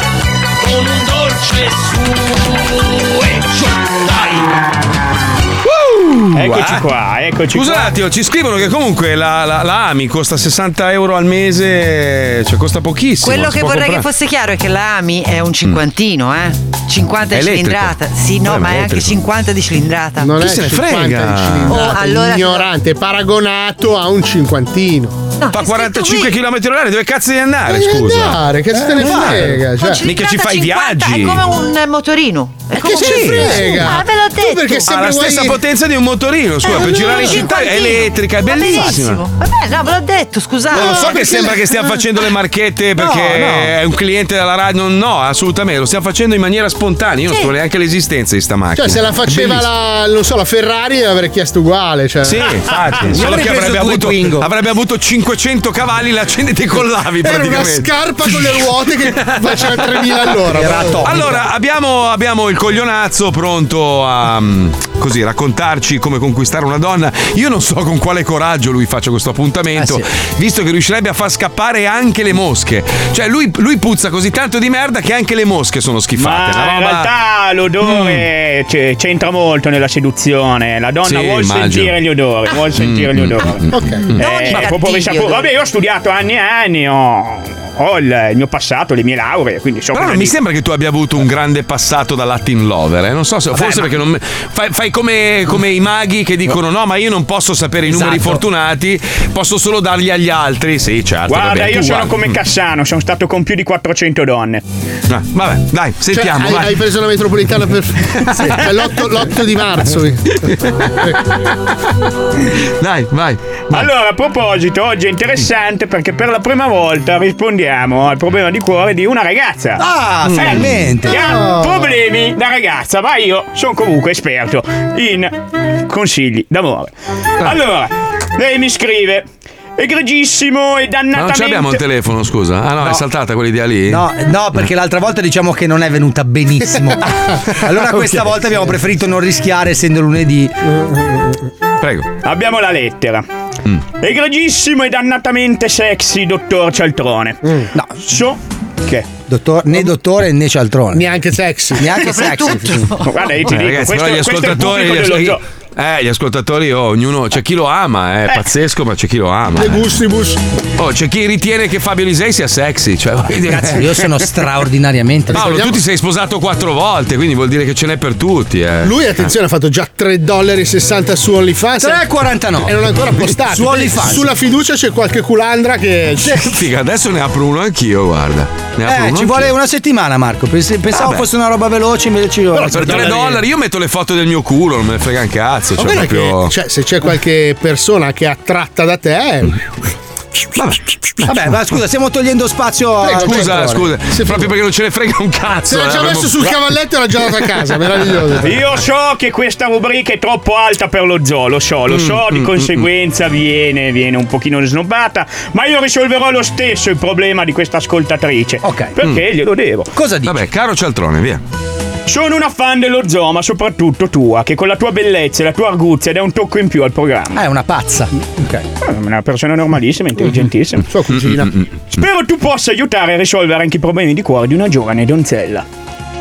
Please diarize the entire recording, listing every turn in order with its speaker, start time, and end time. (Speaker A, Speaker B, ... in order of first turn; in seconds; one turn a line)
Speaker A: 0.6-4.5
Speaker B: 5.6-6.8
Speaker C: 6.3-7.9
Speaker B: 7.5-14.1
Speaker D: 13.2-20.3
Speaker B: 17.3-19.2
Speaker E: 20.2-25.2
Speaker B: 20.4-21.9
Speaker D: 21.7-22.7
Speaker D: 25.4-26.3
Speaker B: 25.5-28.4
Speaker E: 27.7-30.0
Speaker F: 28.7-29.6
Speaker B: 29.0-31.4
Speaker D: 29.8-34.9
Speaker E: 32.8-35.6
Speaker F: 32.9-33.5
Speaker B: 33.0-33.4
Speaker B: 34.9-39.2
Speaker D: 36.6-41.2
Speaker B: 40.7-49.6
Speaker E: 40.7-41.5
Speaker F: 40.8-41.5
Speaker F: 43.0-43.7
Speaker E: 48.8-52.5
Speaker B: 52.2-60.3
Speaker F: 53.0-54.5
Speaker E: 57.2-61.3
Speaker F: 60.5-61.4
Speaker B: 61.0-77.1
Speaker F: 69.7-70.1
Speaker C: 76.2-83.6
Speaker B: 77.8-78.3
Speaker B: 81.0-82.0
Speaker B: 82.7-84.7
Speaker E: 83.7-84.1
Speaker D: 84.2-85.5
Speaker C: 84.2-90.3
Speaker B: 89.9-102.4
Speaker F: 93.5-93.9
Speaker F: 97.8-98.4
Speaker C: 101.3-104.6
Speaker B: 105.1-106.8
Speaker E: 106.1-111.2
Speaker B: 112.8-113.9
Speaker C: 113.7-119.8
Speaker F: 119.8-121.4
Speaker B: 120.2-120.7
Speaker C: 120.3-125.3
Speaker C: 125.9-131.8
Speaker B: 131.1-134.0
Speaker F: 133.9-140.5
Speaker E: 140.8-141.1
Speaker B: 141.8-142.1
Speaker C: 142.2-143.2
Speaker C: 144.0-147.4
Speaker C: 148.0-149.1
Speaker F: 149.3-151.1
Speaker E: 150.9-152.6
Speaker F: 151.8-152.9
Speaker C: 153.0-155.4
Speaker B: 153.5-159.9
Speaker E: 159.6-160.4
Speaker B: 160.8-164.1
Speaker F: 163.3-165.6
Speaker E: 165.3-165.8
Speaker B: 165.3-169.0
Speaker E: 168.8-172.0
Speaker F: 171.8-174.3
Speaker E: 172.6-176.4
Speaker F: 176.2-176.6
Speaker B: 176.4-179.5
Speaker F: 178.8-183.3
Speaker B: 180.9-181.2
Speaker E: 182.6-183.4
Speaker B: 182.6-186.5
Speaker E: 185.8-189.6
Speaker F: 191.2-193.9
Speaker B: 193.0-196.6
Speaker E: 193.1-194.5
Speaker E: 195.7-198.6
Speaker C: 198.4-209.9
Speaker B: 201.9-202.9
Speaker F: 208.6-208.9
Speaker F: 209.9-210.4
Speaker B: 210.2-211.4
Speaker C: 212.1-217.4
Speaker F: 217.3-218.6
Speaker C: 218.8-220.9
Speaker E: 220.9-221.5
Speaker B: 221.1-221.7
Speaker C: 221.9-225.6